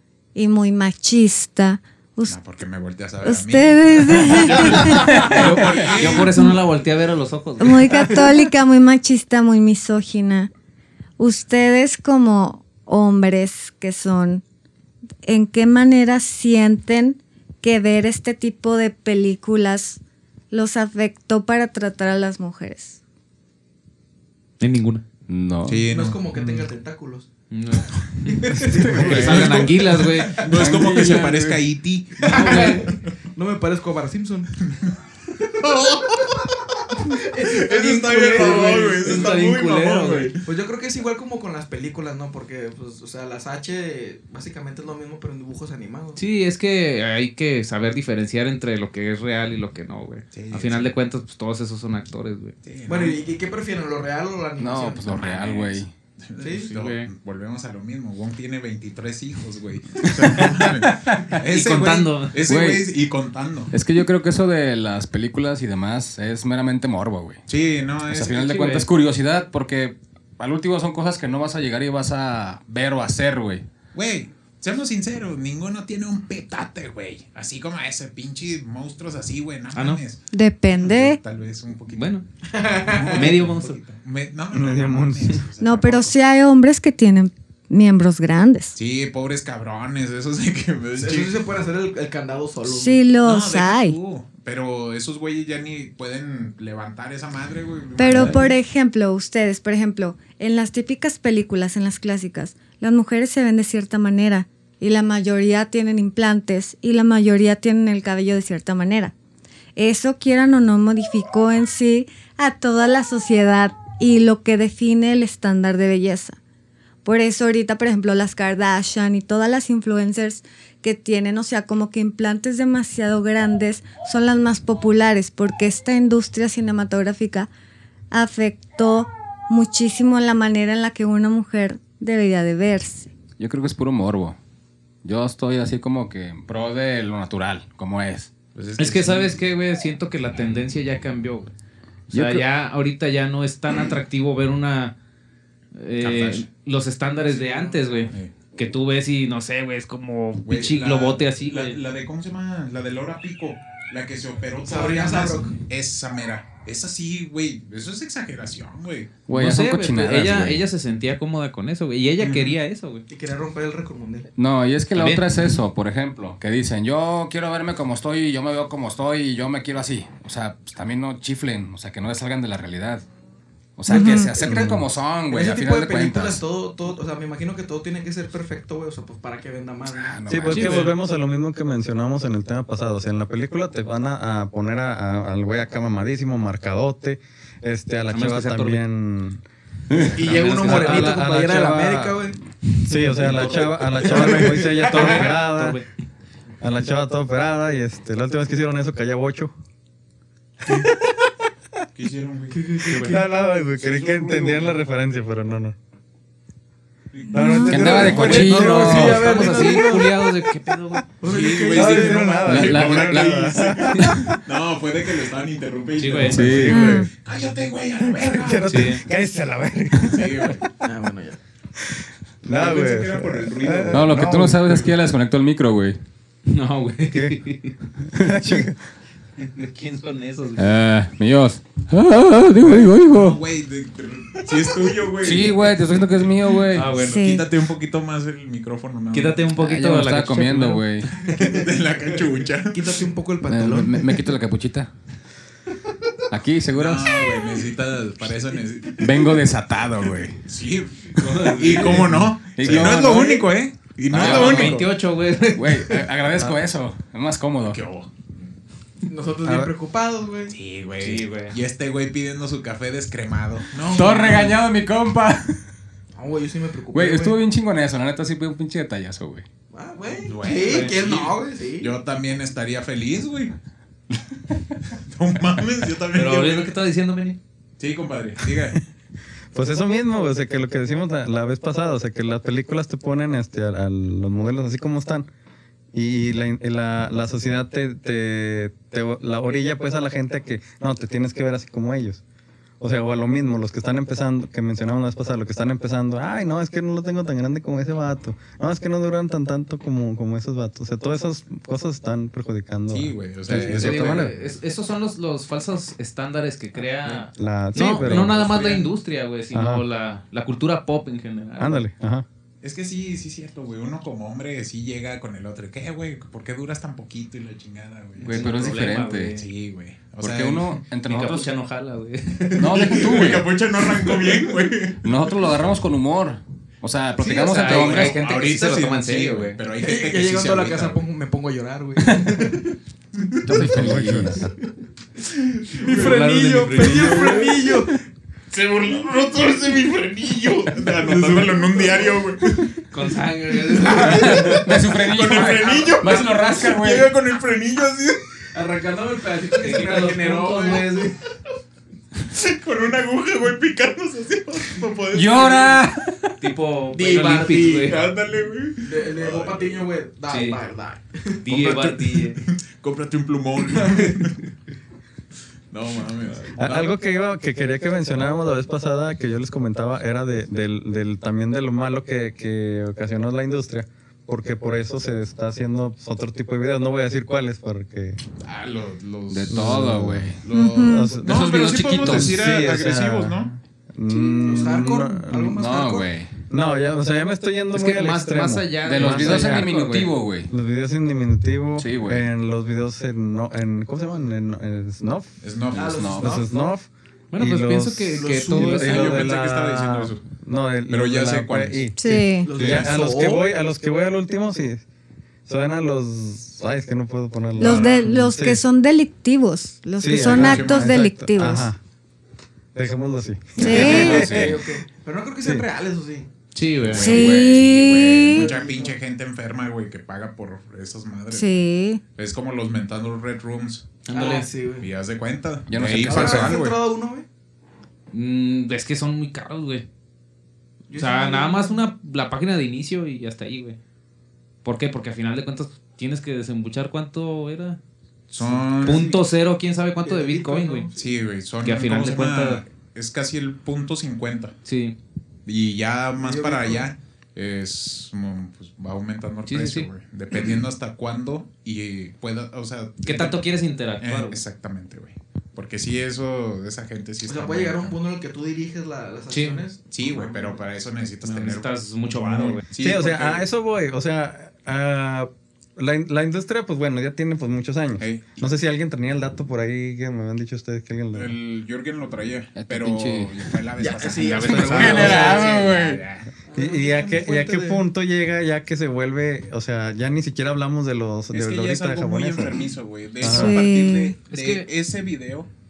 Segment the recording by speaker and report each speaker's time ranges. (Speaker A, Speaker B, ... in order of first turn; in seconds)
Speaker A: 0.3-2.4, 3.2-5.5, 6.0-6.6, 7.6-10.5, 11.2-14.4, 15.2-20.0, 20.5-23.0, 80.3-81.2, 85.6-88.7, 92.6-94.0, 98.0-109.1, 109.8-116.4, 117.0-127.5, 128.1-133.1, 173.9-174.3, 207.3-207.9, 216.7-217.1, 236.9-237.5, 380.5-381.2, 402.0-402.6, 407.6-411.7, 413.6-414.3, 416.9-418.5, 421.3-422.0, 483.2-484.2
Speaker B: 2.3-6.3, 25.6-26.2, 28.9-32.9, 35.5-40.4, 50.3-50.9, 52.6-53.2, 55.1-63.7, 67.5-68.8, 73.9-80.2, 80.7-82.1, 82.8-86.2, 88.7-91.3, 93.2-98.5, 138.5-139.4, 146.0-146.5, 150.4-159.1, 162.2-162.6, 201.9-202.6, 203.8-204.7, 207.1-208.6, 211.2-219.0, 219.9-220.6, 222.5-224.3, 232.6-239.4, 241.2-243.1, 246.7-249.3, 250.4-254.9, 257.6-258.1, 260.5-264.6, 270.2-273.5, 274.9-276.7, 277.8-278.8, 302.9-304.3, 308.3-308.8, 312.6-318.8, 319.3-320.8, 322.7-325.1, 327.6-331.1, 336.8-337.5, 338.5-342.7, 344.2-348.3, 352.2-355.9, 357.8-359.9, 362.4-364.4, 365.7-366.9, 378.4-379.7, 380.4-383.5, 395.4-396.1, 398.8-400.2, 400.9-401.9, 402.6-402.9, 407.6-408.0, 410.1-411.0, 413.6-414.5, 416.6-421.5, 422.1-423.9, 424.8-426.8, 438.3-439.1, 440.9-444.5, 445.4-453.4, 454.0-457.9, 459.9-463.4, 468.0-468.5, 471.1-476.1, 481.3-485.5
Speaker C: 4.7-8.3, 24.6-25.0, 27.5-30.9, 32.2-32.8, 38.3-40.3, 46.1-52.5, 56.7-57.1, 61.3-62.4, 68.5-68.9, 79.7-80.0, 81.9-82.2, 83.1-83.8, 138.8-141.5, 142.1-144.9, 145.7-151.8, 159.3-163.0, 164.9-165.2, 180.5-180.9, 188.1-188.8, 190.0-191.4, 192.9-195.8, 202.9-203.2, 208.2-211.1, 216.0-216.7, 218.7-219.0, 226.5-227.8, 229.4-230.7, 236.7-237.2, 239.1-241.1, 251.2-252.1, 254.1-256.1, 261.0-261.6, 270.6-270.9, 276.1-277.4, 303.5-311.8, 318.2-319.4, 321.1-323.1, 327.2-329.6, 335.8-337.6, 342.9-344.7, 349.5-351.1, 356.4-358.0, 360.3-360.6, 361.4-362.4, 387.7-390.1, 397.3-399.2, 416.5-417.3, 424.1-424.5, 428.1-429.8, 430.9-433.8, 434.6-437.8, 438.8-440.9, 441.6-442.6, 444.6-445.0, 449.5-449.9, 453.0-454.4, 459.3-459.6, 461.2-462.6, 474.2-476.2, 484.3-484.7
Speaker D: 25.3-25.8, 28.7-29.5, 30.5-31.6, 32.3-32.8, 54.6-55.9, 60.2-61.4, 62.5-62.9, 63.7-67.4, 68.1-73.6, 133.4-134.4, 135.0-138.3, 142.1-142.4, 159.3-160.6, 164.4-173.0, 173.8-176.4, 179.9-180.9, 189.9-190.2, 207.7-209.7, 212.4-213.5, 216.3-216.9, 223.9-226.0, 230.6-233.4, 235.2-236.9, 239.6-241.1, 243.5-244.9, 246.3-247.3, 249.0-250.4, 251.9-253.5, 254.1-254.8, 255.5-257.8, 263.8-265.7, 266.9-269.4, 318.2-319.4, 320.2-321.5, 322.6-323.5, 325.0-328.2, 333.4-334.5, 344.0-347.1, 355.1-356.3, 379.3-380.4, 381.2-382.6, 385.5-386.4, 388.8-390.5, 391.8-392.3, 395.8-396.4, 414.2-414.5, 417.0-417.7, 425.7-426.7, 472.5-473.5, 474.4-476.0
Speaker E: 25.9-27.3, 28.3-30.5, 32.2-34.5, 37.0-39.4, 40.4-46.2, 52.9-55.2, 56.4-56.7, 82.5-83.4, 91.0-93.0, 147.2-148.1, 154.6-155.5, 163.1-164.3, 173.9-174.7, 175.2-180.2, 190.1-192.4, 194.1-195.3, 202.5-203.2, 207.7-210.3, 211.2-212.8, 220.8-221.4, 241.2-241.8, 242.7-244.3, 259.0-260.6, 266.1-267.4, 269.7-272.0, 307.7-308.1, 322.7-323.2, 327.2-327.9, 329.8-332.8, 335.3-338.0, 341.0-342.2, 343.5-344.8, 348.5-351.1, 356.9-357.9, 358.8-362.0, 363.8-364.1, 384.3-386.1, 395.7-396.4, 398.2-399.2, 402.4-403.4, 413.6-416.3, 418.3-418.9, 424.1-424.9, 426.0-427.2, 430.9-431.8, 438.4-439.2, 440.0-441.2, 446.2-446.9, 457.2-460.6, 473.8-475.7, 476.5-477.8
Speaker F: 26.4-26.6, 28.6-28.9, 84.5-85.4, 174.4-174.8, 180.3-195.8, 196.6-199.5, 202.9-205.8, 207.3-208.9, 211.7-214.4, 218.0-220.7, 221.8-224.9, 227.1-227.4, 228.1-228.8, 252.6-252.9, 259.4-259.7, 279.5-285.3, 285.9-292.2, 292.8-304.4, 307.3-308.4, 309.5-309.8, 311.6-312.2, 333.5-334.5, 366.6-378.2, 379.5-385.6, 386.5-395.3, 396.2-404.8, 405.4-408.6, 410.0-411.8, 412.7-414.6, 462.8-471.3, 476.5-483.6